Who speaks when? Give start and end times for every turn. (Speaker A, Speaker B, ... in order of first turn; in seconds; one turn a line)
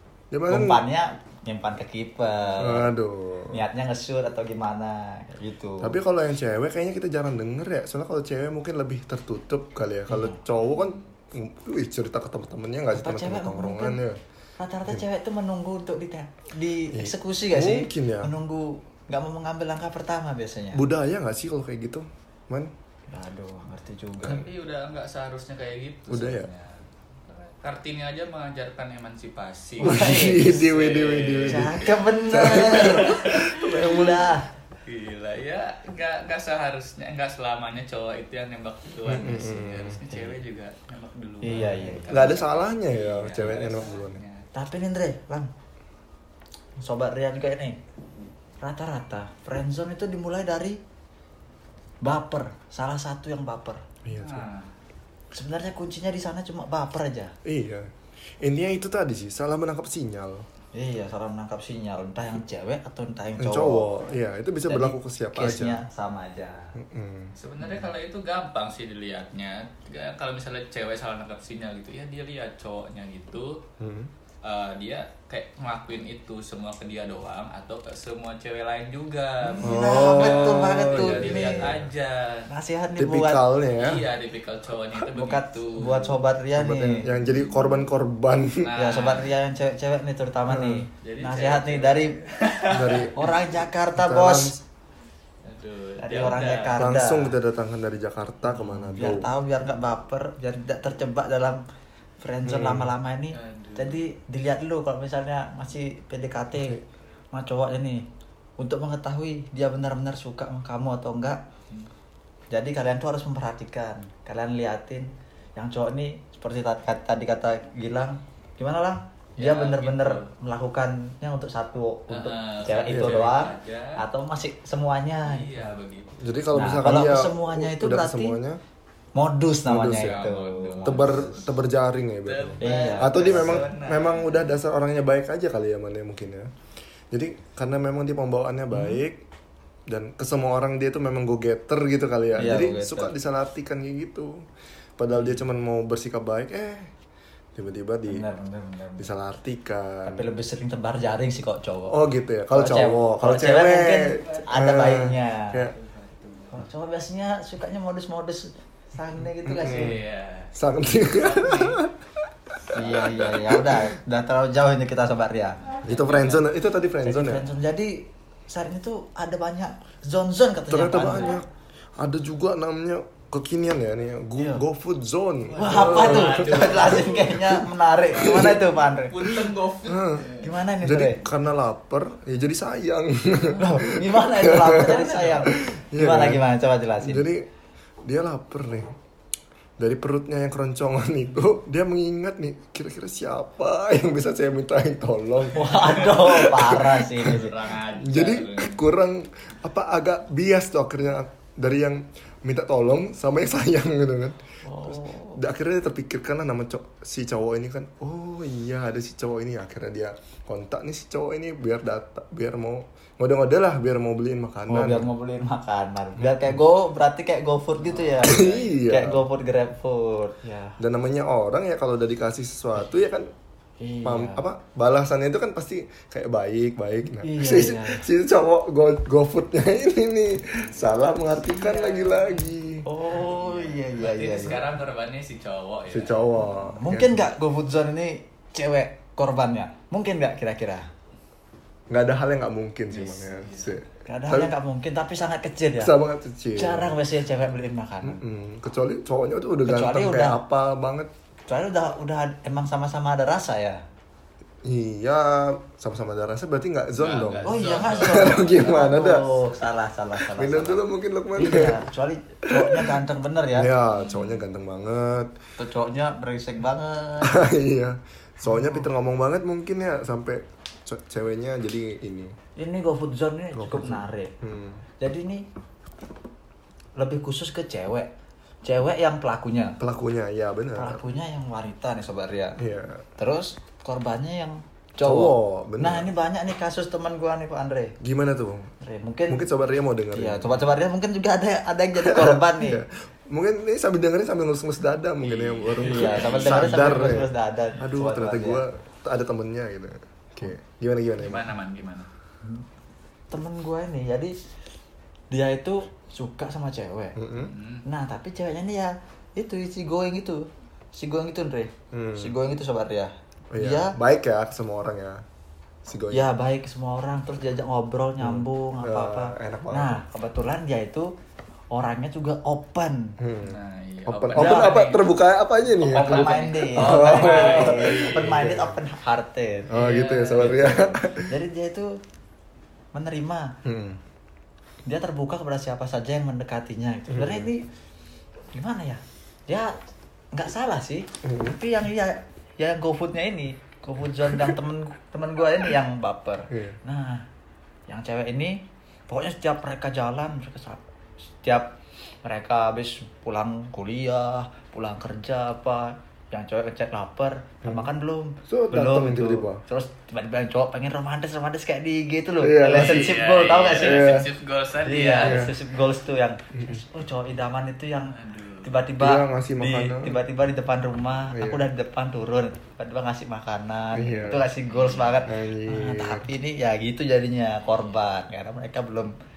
Speaker A: 0.3-0.8
Speaker B: 0.5-2.9
Speaker A: 2.6-3.6
Speaker B: 3.5-6.0
Speaker A: 5.8-14.2
Speaker B: 10.1-10.4
Speaker B: 12.9-14.0
Speaker B: 14.6-20.8
Speaker A: 16.9-18.3
Speaker A: 20.7-22.7
Speaker B: 23.1-24.5
Speaker C: 24.2-33.6
Speaker A: 26.1-26.5
Speaker B: 29.8-30.6
Speaker A: 29.8-34.3
Speaker B: 31.5-34.5
Speaker C: 34.9-44.5
Speaker A: 39.1-40.1
Speaker B: 41.4-42.3
Speaker A: 42.1-44.2
Speaker B: 44.5-45.5
Speaker B: 46.8-47.8
Speaker B: 48.6-50.8
Speaker B: 52.0-53.8
Speaker A: 54.0-54.5
Speaker C: 54.1-54.7
Speaker B: 55.3-57.4
Speaker A: 57.4-60.5
Speaker B: 60.8-63.9
Speaker A: 63.4-65.8
Speaker B: 64.7-66.8
Speaker A: 66.8-67.9
Speaker C: 67.4-73.6
Speaker A: 73.8-74.1
Speaker C: 74.4-82.5
Speaker B: 79.4-81.7
Speaker A: 79.6-81.9
Speaker B: 82.5-83.4
Speaker A: 83.0-84.1
Speaker C: 83.7-86.2
Speaker B: 85.0-87.1
Speaker A: 86.5-88.7
Speaker C: 87.1-87.8
Speaker C: 88.6-89.3
Speaker B: 88.8-92.2
Speaker A: 90.5-90.9
Speaker C: 91.0-93.1
Speaker A: 92.7-94.5
Speaker B: 93.1-94.6
Speaker C: 95.4-96.8
Speaker B: 96.0-97.3
Speaker A: 96.8-99.3
Speaker B: 98.4-101.6
Speaker B: 102.2-106.8
Speaker A: 102.5-102.9
Speaker C: 103.3-104.0
Speaker A: 106.5-106.8
Speaker B: 107.3-108.0
Speaker B: 108.6-111.4
Speaker B: 112.5-125.7
Speaker C: 119.4-120.3
Speaker C: 122.1-124.0
Speaker A: 122.9-123.3
Speaker C: 125.2-126.2
Speaker A: 126.2-128.6
Speaker B: 126.5-128.4
Speaker B: 129.2-131.3
Speaker A: 129.7-130.3
Speaker C: 129.9-131.5
Speaker A: 130.8-136.5
Speaker C: 132.2-134.6
Speaker B: 132.6-133.7
Speaker A: 137.1-139.2
Speaker B: 138.7-139.0
Speaker A: 139.9-144.5
Speaker B: 142.3-143.1
Speaker A: 145.0-146.9
Speaker A: 147.6-148.2
Speaker B: 148.1-149.1
Speaker A: 149.0-150.3
Speaker B: 150.0-152.0
Speaker A: 151.9-155.8
Speaker B: 152.5-155.6
Speaker C: 154.2-154.5
Speaker C: 155.6-156.6
Speaker B: 156.5-160.0
Speaker A: 159.4-162.0
Speaker C: 159.6-161.8
Speaker C: 162.7-163.3
Speaker B: 162.7-165.8
Speaker A: 162.7-164.0
Speaker C: 165.8-166.4
Speaker A: 165.8-167.5
Speaker B: 167.0-171.4
Speaker A: 170.7-178.7
Speaker B: 174.4-174.6
Speaker B: 175.5-179.4
Speaker C: 175.6-177.3
Speaker C: 178.3-180.6
Speaker A: 179.3-180.3
Speaker B: 180.4-181.2
Speaker A: 180.8-186.4
Speaker B: 183.6-187.3
Speaker C: 184.8-185.5
Speaker A: 187.0-187.5
Speaker A: 188.0-188.9
Speaker A: 189.8-197.5
Speaker B: 195.5-197.6
Speaker C: 196.8-198.8
Speaker A: 198.0-215.1
Speaker B: 204.7-205.4
Speaker B: 214.7-220.8
Speaker A: 216.2-216.5
Speaker C: 217.9-218.7
Speaker A: 218.2-219.2
Speaker A: 220.8-223.3
Speaker B: 223.8-224.4
Speaker A: 224.0-232.9
Speaker B: 227.2-228.0
Speaker C: 231.4-232.5
Speaker B: 232.8-234.7
Speaker C: 233.2-236.4
Speaker A: 235.9-237.3
Speaker B: 236.6-240.9
Speaker A: 241.9-244.5
Speaker C: 242.9-243.8
Speaker B: 244.1-245.9
Speaker A: 245.8-247.0
Speaker B: 246.6-248.2
Speaker A: 248.0-251.1
Speaker B: 249.7-250.4
Speaker B: 251.5-253.8
Speaker A: 254.6-259.3
Speaker C: 257.0-258.9
Speaker B: 257.4-260.8
Speaker A: 260.2-261.9
Speaker B: 261.4-263.7
Speaker A: 262.5-263.0
Speaker A: 263.6-265.3
Speaker C: 264.0-264.4
Speaker B: 265.6-267.5
Speaker A: 267.2-272.4
Speaker B: 268.4-268.9
Speaker B: 272.6-274.3
Speaker A: 273.6-274.8
Speaker B: 275.0-275.5
Speaker B: 277.0-278.1
Speaker B: 278.6-279.8
Speaker A: 279.8-281.0
Speaker B: 280.8-282.6
Speaker A: 282.6-283.1
Speaker B: 283.2-287.9
Speaker A: 285.0-286.1
Speaker A: 288.0-288.7
Speaker B: 288.8-289.4
Speaker A: 289.3-290.6
Speaker B: 290.1-292.8
Speaker A: 292.0-301.5
Speaker C: 295.2-297.2
Speaker B: 295.8-298.6
Speaker C: 301.2-302.1
Speaker B: 303.3-304.3
Speaker B: 305.3-307.2
Speaker A: 307.2-307.5
Speaker C: 307.4-307.9
Speaker B: 307.9-313.9
Speaker A: 311.9-312.4
Speaker A: 313.5-315.2
Speaker A: 315.9-316.3
Speaker B: 316.1-321.1
Speaker A: 318.2-320.0
Speaker B: 321.7-323.2
Speaker A: 323.2-328.8
Speaker C: 323.4-325.1
Speaker B: 324.4-324.8
Speaker C: 325.8-328.5
Speaker B: 325.9-329.7
Speaker A: 329.7-331.3
Speaker C: 329.7-330.9
Speaker B: 330.4-332.0
Speaker B: 332.9-333.6
Speaker A: 333.6-334.0
Speaker B: 334.9-337.7
Speaker A: 337.1-337.5
Speaker B: 338.5-339.8
Speaker B: 340.3-347.3
Speaker A: 341.2-341.6
Speaker A: 344.3-344.6
Speaker A: 346.5-346.8
Speaker B: 347.9-350.8
Speaker B: 351.4-364.2
Speaker A: 358.5-359.6
Speaker A: 362.4-363.1
Speaker C: 362.7-365.5
Speaker A: 363.8-364.3
Speaker B: 364.8-379.1
Speaker A: 365.2-365.5
Speaker A: 366.5-366.8
Speaker C: 368.1-368.8
Speaker A: 369.0-370.2
Speaker A: 371.3-371.7
Speaker A: 373.9-374.5
Speaker C: 374.7-375.2
Speaker A: 375.3-376.3